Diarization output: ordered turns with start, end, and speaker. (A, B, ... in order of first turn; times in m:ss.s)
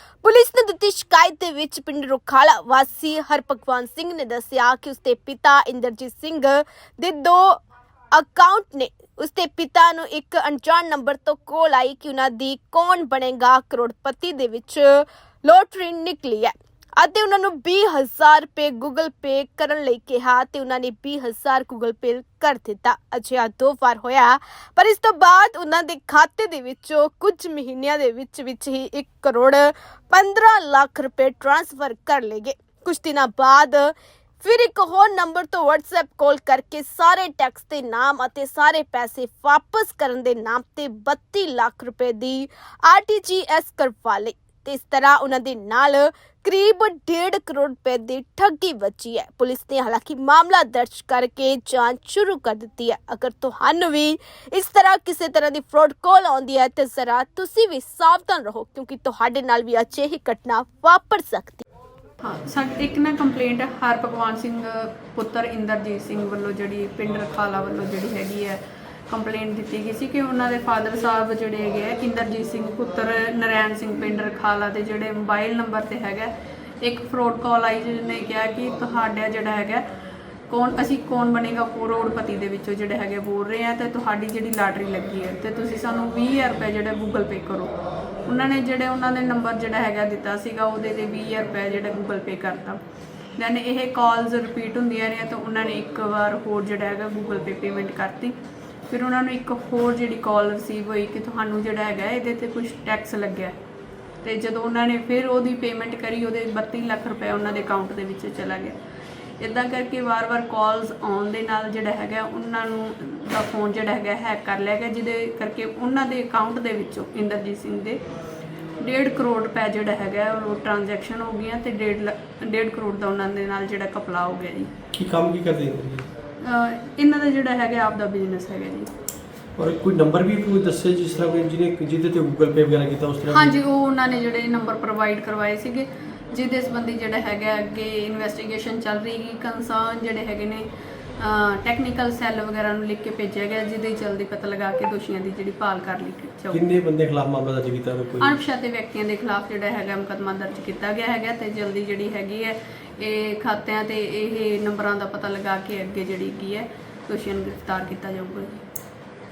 0:00.2-0:07.6 A
0:08.1-1:01.6 A
1:02.2-1:16.3 B
1:16.8-1:19.8 B
1:20.5-1:27.7 B
1:28.2-1:32.8 B
1:33.4-1:38.3 B
1:38.9-1:43.5 B
1:44.2-1:48.8 B
1:49.4-1:58.0 B
1:58.8-2:04.7 B
2:04.9-2:06.1 C
2:06.4-2:08.9 B
2:09.6-2:13.6 C
2:13.3-2:20.7 B
2:21.2-2:26.6 B
2:26.5-2:28.4 C
2:28.2-2:38.6 B